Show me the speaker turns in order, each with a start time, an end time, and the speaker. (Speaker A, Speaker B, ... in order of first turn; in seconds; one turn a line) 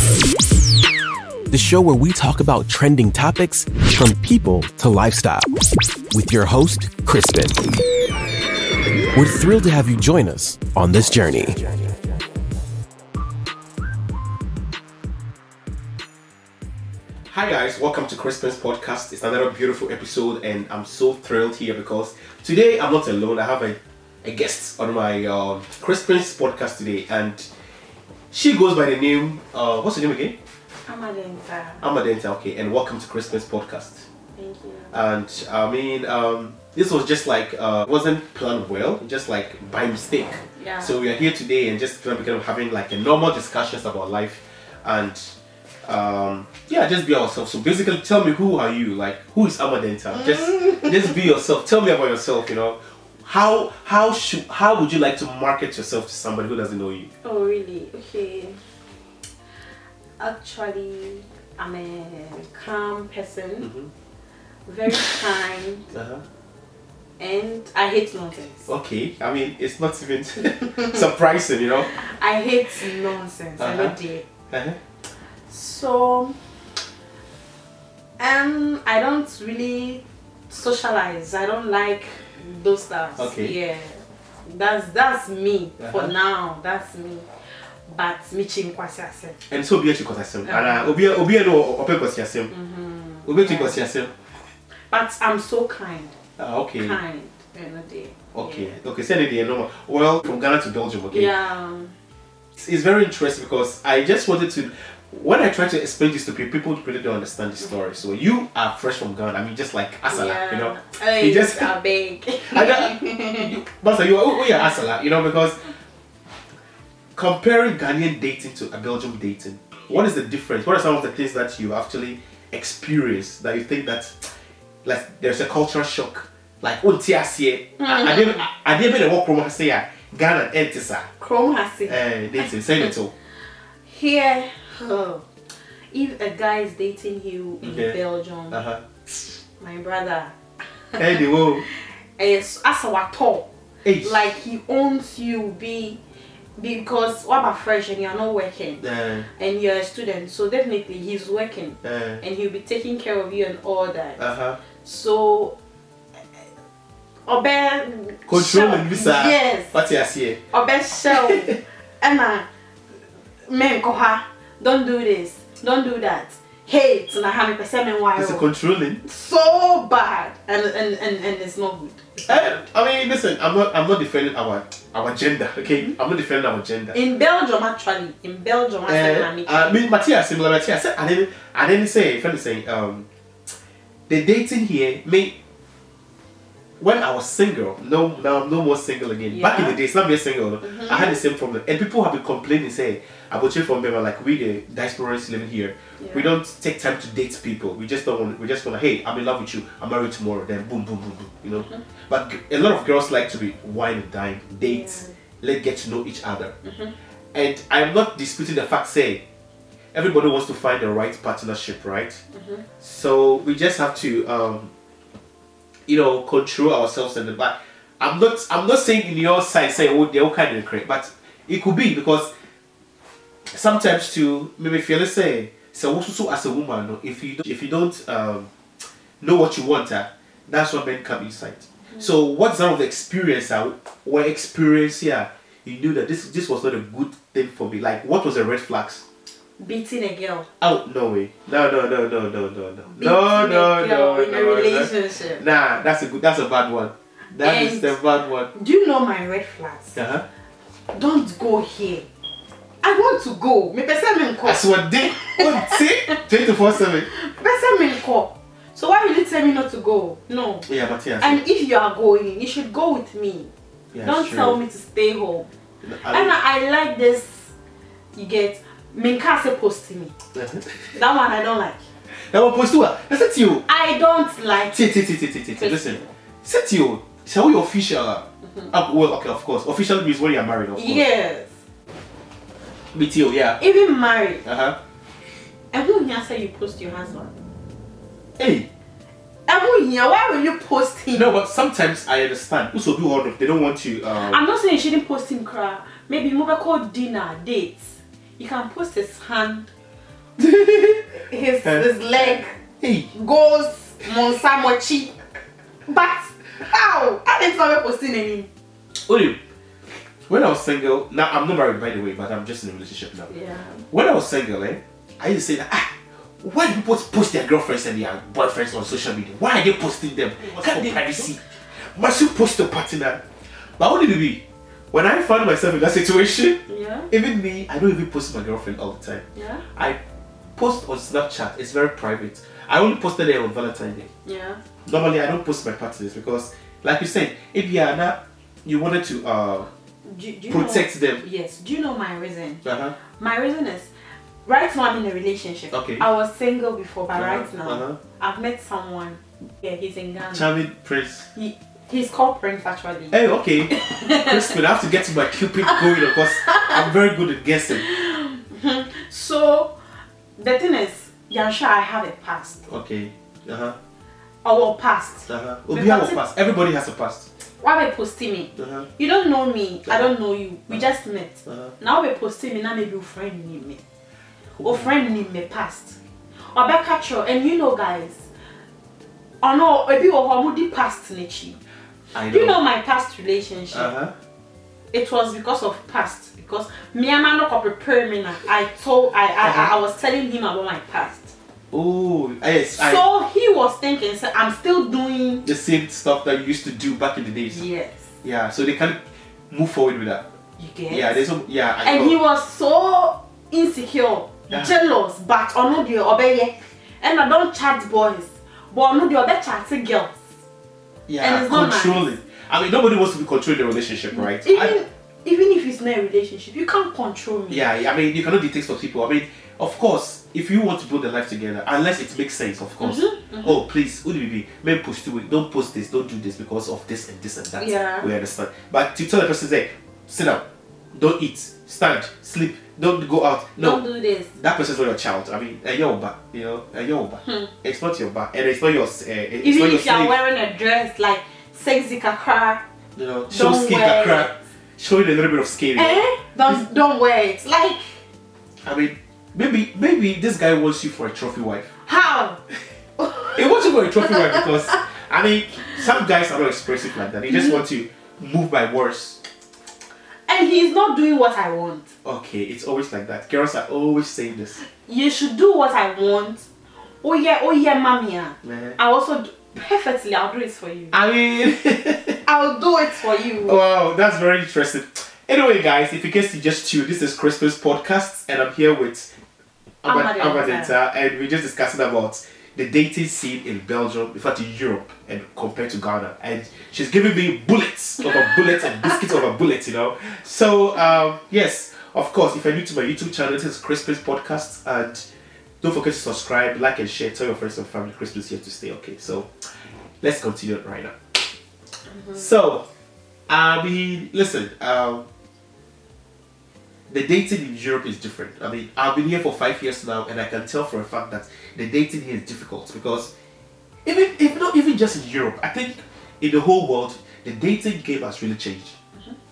Speaker A: 1.5-5.5
Speaker A: 6.1-7.6
Speaker A: 9.1-11.6
Speaker B: 17.3-27.5
Speaker B: 28.3-30.4
Speaker C: 30.9-31.9
Speaker B: 31.8-34.0
Speaker C: 34.4-35.0
Speaker B: 34.9-45.3
Speaker C: 40.6-41.0
Speaker B: 45.9-57.1
Speaker C: 50.2-51.2
Speaker C: 57.2-58.6
Speaker C: 60.2-63.7
Speaker B: 63.6-63.9
Speaker C: 64.7-65.9
Speaker B: 65.9-66.2
Speaker C: 67.2-68.7
Speaker B: 68.7-72.0
Speaker C: 71.9-74.2
Speaker B: 73.6-74.0
Speaker B: 74.5-74.8
Speaker C: 75.5-76.4
Speaker C: 78.2-87.3
Speaker B: 83.2-83.5
Speaker B: 85.8-86.1
Speaker C: 87.9-89.4
Speaker B: 89.5-92.5
Speaker C: 90.5-90.8
Speaker C: 92.5-93.8
Speaker B: 93.3-94.1
Speaker C: 94.9-96.2
Speaker B: 96.4-97.0
Speaker C: 96.8-98.8
Speaker B: 98.3-101.3
Speaker C: 101.1-101.9
Speaker B: 102.5-111.7
Speaker C: 110.1-113.5
Speaker B: 112.5-115.7
Speaker B: 117.2-124.3
Speaker B: 124.8-131.1
Speaker C: 127.8-128.5
Speaker C: 131.2-132.0
Speaker B: 131.9-133.1
Speaker C: 133.8-135.2
Speaker C: 135.9-138.6
Speaker B: 137.6-138.0
Speaker B: 138.5-138.8
Speaker C: 139.2-143.5
Speaker B: 141.0-141.6
Speaker B: 143.8-144.3
Speaker C: 144.0-146.0
Speaker C: 146.6-155.5
Speaker B: 148.8-149.3
Speaker B: 151.8-152.2
Speaker B: 154.2-154.6
Speaker C: 157.3-159.7
Speaker B: 158.3-160.4
Speaker C: 160.5-162.5
Speaker B: 161.1-161.6
Speaker C: 163.4-168.4
Speaker B: 168.2-169.0
Speaker C: 169.0-172.6
Speaker B: 172.3-177.0
Speaker C: 176.9-179.9
Speaker B: 178.9-183.1
Speaker B: 184.1-185.3
Speaker B: 186.8-206.6
Speaker C: 189.3-189.8
Speaker C: 190.6-191.2
Speaker C: 196.0-196.3
Speaker C: 204.6-205.2
Speaker C: 206.6-206.9
Speaker B: 207.3-209.2
Speaker B: 209.9-212.2
Speaker C: 212.3-212.6
Speaker B: 212.8-214.7
Speaker B: 215.9-222.3
Speaker B: 223.5-228.5
Speaker B: 229.2-239.0
Speaker C: 239.6-240.5
Speaker B: 240.6-248.5
Speaker C: 242.9-245.4
Speaker C: 247.4-250.0
Speaker B: 249.9-250.2
Speaker C: 250.9-252.1
Speaker C: 252.8-256.1
Speaker B: 254.4-257.1
Speaker C: 257.1-260.7
Speaker B: 260.7-261.4
Speaker C: 261.2-263.5
Speaker B: 263.9-264.6
Speaker C: 264.0-265.5
Speaker B: 265.8-266.4
Speaker C: 266.0-267.5
Speaker C: 268.1-270.1
Speaker B: 270.3-271.0
Speaker C: 270.9-271.8
Speaker B: 272.1-273.6
Speaker C: 273.6-275.0
Speaker B: 274.7-281.1
Speaker C: 275.6-276.1
Speaker C: 280.8-281.6
Speaker B: 282.9-283.6
Speaker C: 283.6-284.4
Speaker B: 284.4-284.8
Speaker C: 285.7-287.4
Speaker B: 288.4-288.7
Speaker C: 289.5-291.4
Speaker B: 291.1-294.4
Speaker C: 294.1-299.7
Speaker B: 300.4-303.1
Speaker C: 301.1-302.6
Speaker C: 303.1-305.1
Speaker C: 305.9-308.5
Speaker B: 309.0-309.4
Speaker B: 310.2-313.3
Speaker C: 313.3-313.8
Speaker B: 313.9-326.6
Speaker C: 326.7-327.1
Speaker B: 327.1-329.2
Speaker C: 329.4-329.6
Speaker B: 330.6-334.1
Speaker C: 334.2-334.6
Speaker B: 334.9-339.7
Speaker C: 340.0-343.9
Speaker B: 340.5-341.2
Speaker B: 342.6-342.9
Speaker C: 344.4-350.5
Speaker B: 345.7-346.1
Speaker B: 347.1-348.0
Speaker B: 350.3-351.3
Speaker C: 351.3-354.6
Speaker B: 353.1-357.8
Speaker C: 355.4-356.8
Speaker C: 357.7-359.8
Speaker C: 360.4-362.6
Speaker B: 362.7-363.8
Speaker C: 364.4-366.2
Speaker B: 365.3-367.3
Speaker C: 367.6-373.8
Speaker B: 368.6-368.9
Speaker B: 371.5-371.7
Speaker B: 374.6-374.9
Speaker C: 374.6-378.3
Speaker C: 379.4-381.6
Speaker B: 382.1-382.6
Speaker C: 382.3-383.9
Speaker B: 383.7-384.1
Speaker C: 384.9-391.3
Speaker B: 389.4-389.8
Speaker B: 391.7-393.0
Speaker C: 392.8-395.5
Speaker B: 395.4-397.6
Speaker C: 397.5-398.1
Speaker B: 398.2-400.2
Speaker C: 400.6-401.2
Speaker B: 400.9-402.2
Speaker C: 401.8-410.2
Speaker B: 411.1-414.8
Speaker C: 411.2-412.1
Speaker C: 414.1-417.6
Speaker B: 417.5-440.1
Speaker C: 422.8-423.6
Speaker C: 427.6-428.1
Speaker C: 433.6-434.3
Speaker C: 437.2-437.5
Speaker C: 439.4-442.6
Speaker B: 443.0-446.6
Speaker C: 443.3-444.3
Speaker C: 445.8-448.0
Speaker B: 448.6-451.7
Speaker C: 451.8-452.4
Speaker C: 453.0-454.5
Speaker B: 453.3-459.2
Speaker C: 457.3-457.6
Speaker C: 460.3-461.9
Speaker B: 462.1-464.6
Speaker C: 464.6-466.5
Speaker C: 467.0-471.0
Speaker B: 468.4-468.8
Speaker B: 470.9-472.2
Speaker C: 472.2-473.6
Speaker B: 473.4-479.1
Speaker B: 479.8-495.1
Speaker C: 479.9-480.8
Speaker B: 495.6-499.3
Speaker B: 500.0-500.9
Speaker C: 501.9-502.3
Speaker B: 502.1-502.7
Speaker B: 503.3-505.1
Speaker B: 506.9-513.1
Speaker B: 513.9-518.8